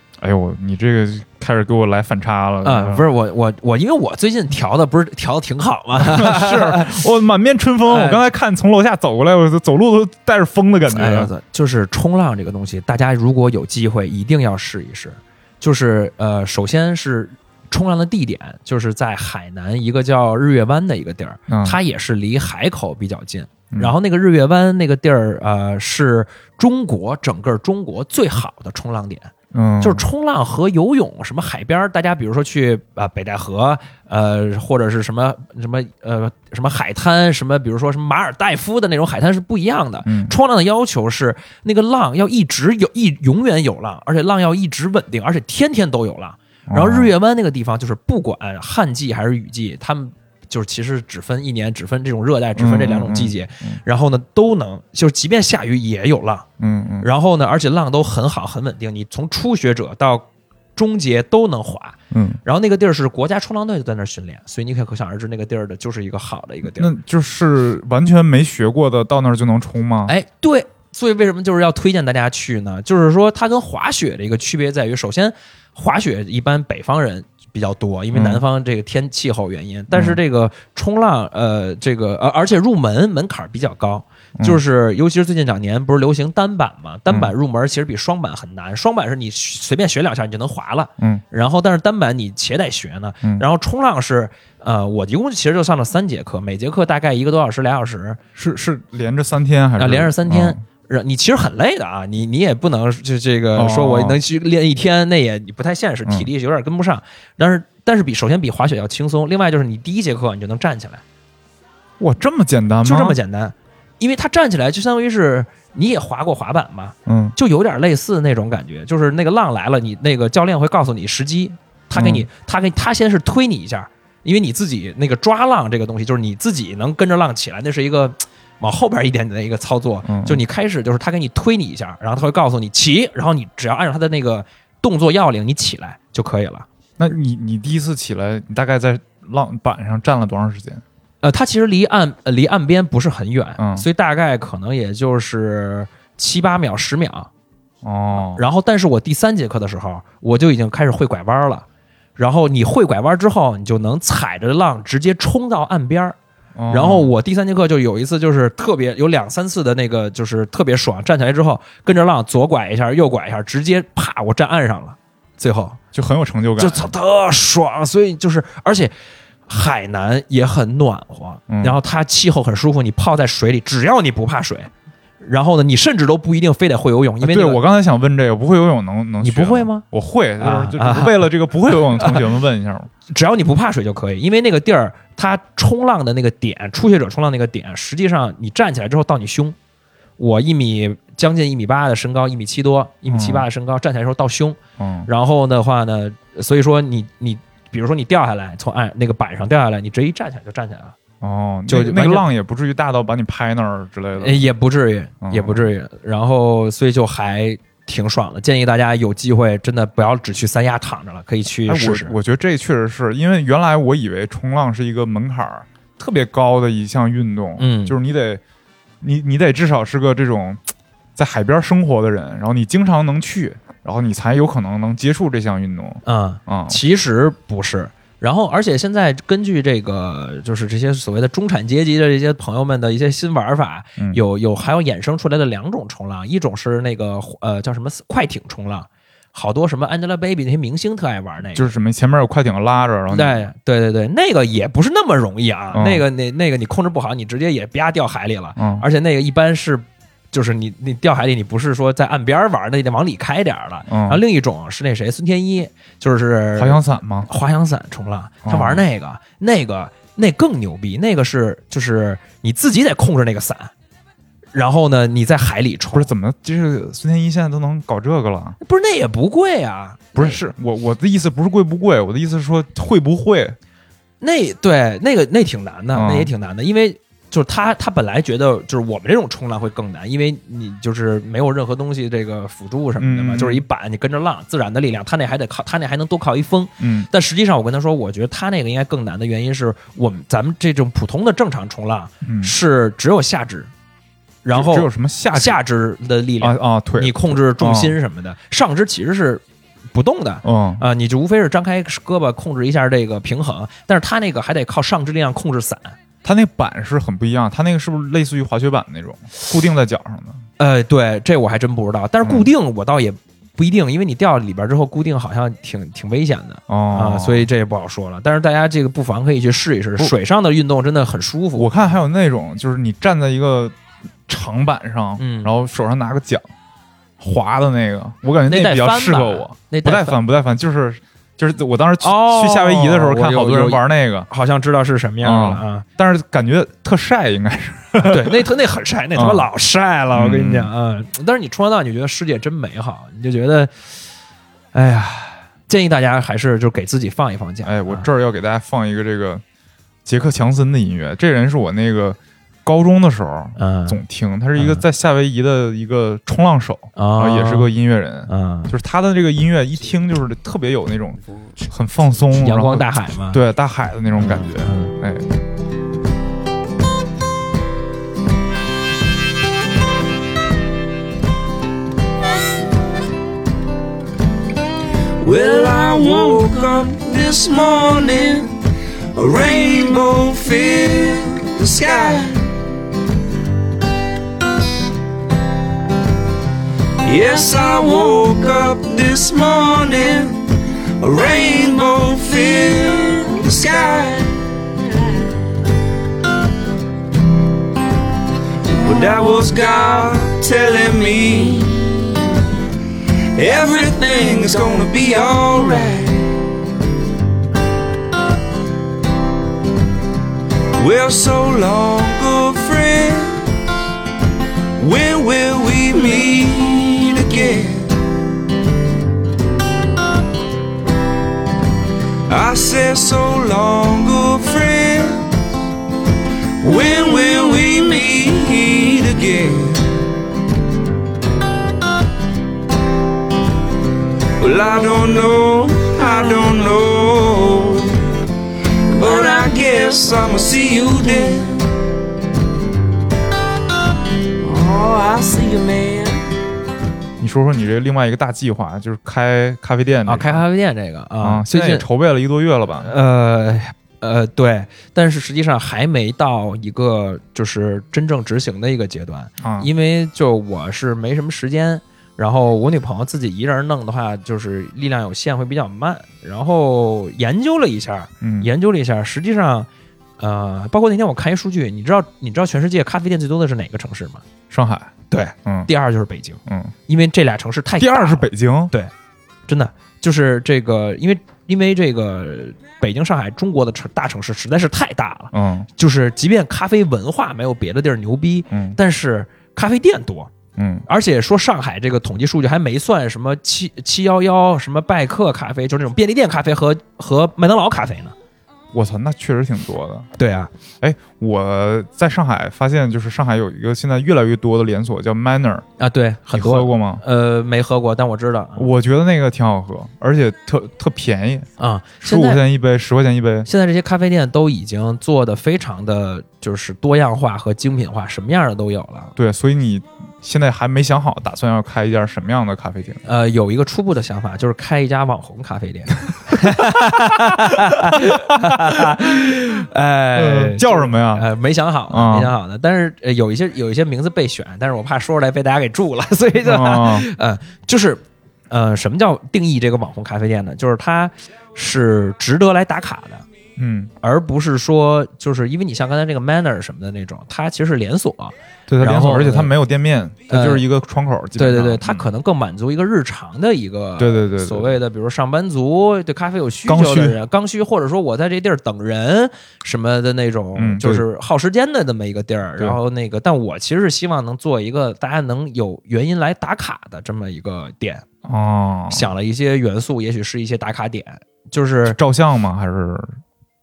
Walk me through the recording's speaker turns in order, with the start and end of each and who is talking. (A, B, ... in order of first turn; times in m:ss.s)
0:00.2-0:03.1 A
0:02.6-0:07.0 B
0:06.0-0:11.3 A
0:07.8-0:08.2 B
0:10.9-0:56.5 B
0:21.5-0:21.8 A
0:29.5-0:30.0 A
0:40.0-0:40.3 A
0:46.7-0:47.1 A
0:52.6-0:53.8 A
0:56.6-0:57.1 A
0:57.0-1:06.9 B
1:02.1-1:02.4 A
1:06.8-1:10.1 A
1:10.1-1:38.2 B
1:18.1-1:18.4 A
1:19.9-1:20.2 A
1:27.1-1:27.3 A
1:38.3-1:40.6 A
1:39.8-1:51.0 B
1:43.5-1:44.2 A
1:52.0-1:53.2 A
1:52.8-2:16.6 B
1:57.0-1:57.4 A
2:01.9-2:02.3 A
2:10.0-2:10.4 A
2:17.0-2:20.8 A
2:21.2-2:27.3 B
2:23.6-2:23.8 A
2:27.8-2:28.4 A
2:28.1-2:36.2 B
2:36.6-2:37.1 A
2:36.7-2:45.8 B
2:45.9-2:46.9 A
2:46.6-2:48.9 B
2:49.5-2:54.7 B
2:51.5-2:51.8 A
2:55.2-2:57.6 B
2:57.2-3:02.9 A
2:59.2-2:59.8 B
3:00.4-3:02.2 B
3:03.1-3:09.6 B
3:10.2-3:21.0 B
3:13.1-3:13.5 A
3:14.8-3:15.1 A
3:21.2-3:24.4 A
3:21.7-3:22.2 B
3:24.2-3:32.1 B
3:25.2-3:25.7 A
3:31.6-3:38.4 A
3:37.6-3:37.9 B
3:39.0-3:40.6 A
3:41.2-3:46.8 A
3:46.0-4:01.7 B
4:01.5-4:03.5 A
4:03.1-4:23.7 B
4:05.7-4:06.0 A
4:08.6-4:08.8 A
4:13.9-4:14.2 A
4:16.6-4:17.3 A
4:18.4-4:18.8 A
4:24.5-4:26.1 B
4:25.9-4:28.6 A
4:28.6-4:30.4 B
4:30.1-4:33.6 A
4:34.2-4:53.7 B
4:35.9-4:36.3 A
4:43.0-4:43.6 A
4:46.8-4:47.1 A
4:52.2-4:52.5 A
4:54.4-5:06.0 B
4:54.5-4:55.6 A
4:56.4-4:58.0 A
5:00.4-5:00.8 A
5:06.2-5:10.4 A
5:10.6-5:21.7 B
5:12.2-5:12.5 A
5:16.7-5:17.5 A
5:21.6-5:23.7 A
5:24.3-5:26.4 A
5:25.2-5:25.5 B
5:27.2-5:34.3 A
5:28.5-5:30.2 B
5:32.0-5:35.8 B
5:35.2-5:38.5 A
5:38.0-5:43.7 B
5:39.1-5:39.5 A
5:40.1-5:40.7 A
5:44.7-5:48.1 B
5:47.6-5:49.4 A
5:50.0-6:05.3 A
5:53.6-5:54.0 B
5:54.6-5:54.8 B
5:57.0-5:57.7 B
5:58.3-5:58.7 B
6:02.4-6:03.4 B
6:04.2-6:04.9 B
6:15.2-6:18.6 C
6:19.1-6:22.4 C
6:27.0-6:30.4 C
6:31.0-6:34.3 C
6:38.7-6:42.0 C
6:43.4-6:46.3 C
6:50.8-6:53.5 C
6:54.8-6:57.9 C
7:02.3-7:05.3 C
7:06.6-7:09.8 C
7:14.4-7:17.9 C
7:18.9-7:21.6 C
7:24.4-7:26.2 C
7:27.2-7:30.4 A
7:30.0-7:31.8 B
7:31.2-7:32.9 A
7:32.8-7:54.2 B
7:39.4-7:39.7 A
7:48.2-7:48.5 A
7:54.5-7:55.7 A
7:55.1-7:58.9 B
7:56.5-7:56.7 A
7:57.8-7:58.7 A
7:59.5-8:10.3 B
8:05.3-8:05.7 A
8:08.5-8:08.8 A
8:10.6-8:10.8 A
8:10.9-8:18.1 B
8:18.7-8:20.1 A
8:20.2-8:20.5 B
8:20.8-8:25.6 A
8:25.8-8:28.7 B
8:26.3-8:27.0 A
8:28.6-8:31.5 A
8:31.6-8:32.4 B
8:32.0-8:33.5 A
8:33.4-8:39.1 B
8:39.2-8:43.0 A
8:43.0-9:03.2 B
8:47.9-8:48.8 A
8:50.1-8:51.3 A
8:51.9-8:52.3 A
8:56.4-8:57.0 A
9:03.6-9:03.9 A
9:04.0-9:09.5 B
9:08.7-9:12.1 A
9:10.3-9:10.6 B
9:11.4-9:28.0 B
9:14.0-9:14.8 A
9:16.6-9:17.2 A
9:20.6-9:21.0 A
9:28.2-9:29.1 A
9:28.9-9:32.0 B
9:31.8-9:33.2 A